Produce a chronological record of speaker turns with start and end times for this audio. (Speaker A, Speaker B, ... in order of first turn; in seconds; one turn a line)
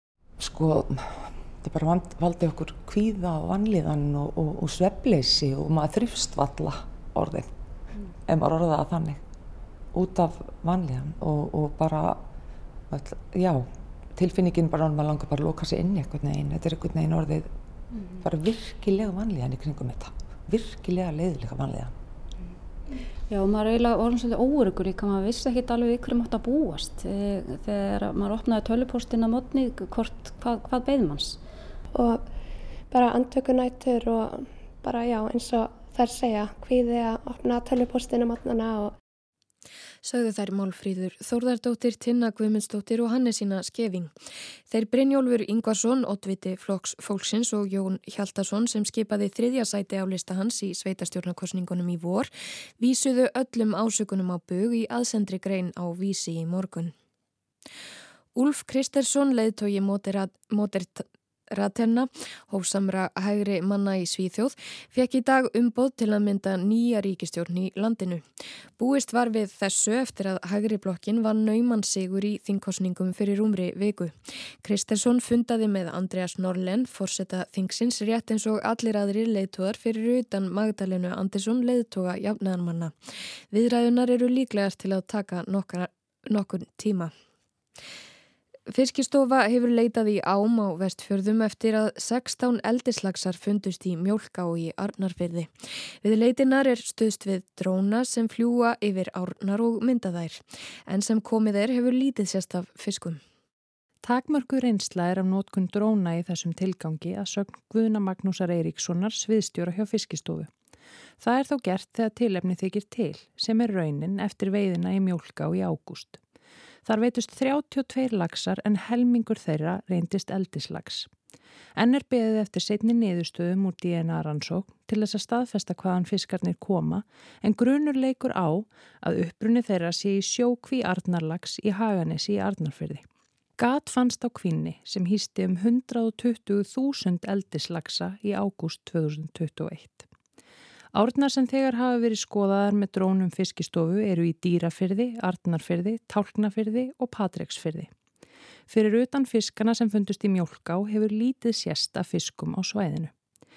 Speaker A: 0.4-7.5
Speaker A: 8.2-9.2
Speaker A: 9.9-12.2
Speaker A: 12.9-17.5
Speaker B: 17.9-18.2
Speaker A: 18.2-21.9
Speaker B: 23.3-31.4
Speaker C: 31.9-32.2
Speaker C: 32.9-38.9
Speaker D: 40.0-44.1
Speaker D: 44.7-56.9
Speaker D: 58.4-68.2
Speaker D: 68.8-83.0
Speaker D: 83.5-87.1
Speaker D: 88.7-103.2
Speaker E: 104.0-110.5
Speaker E: 111.2-116.2
Speaker E: 116.9-121.1
Speaker E: 121.8-133.1
Speaker E: 133.6-140.1
Speaker E: 140.9-147.9
Speaker E: 148.7-153.1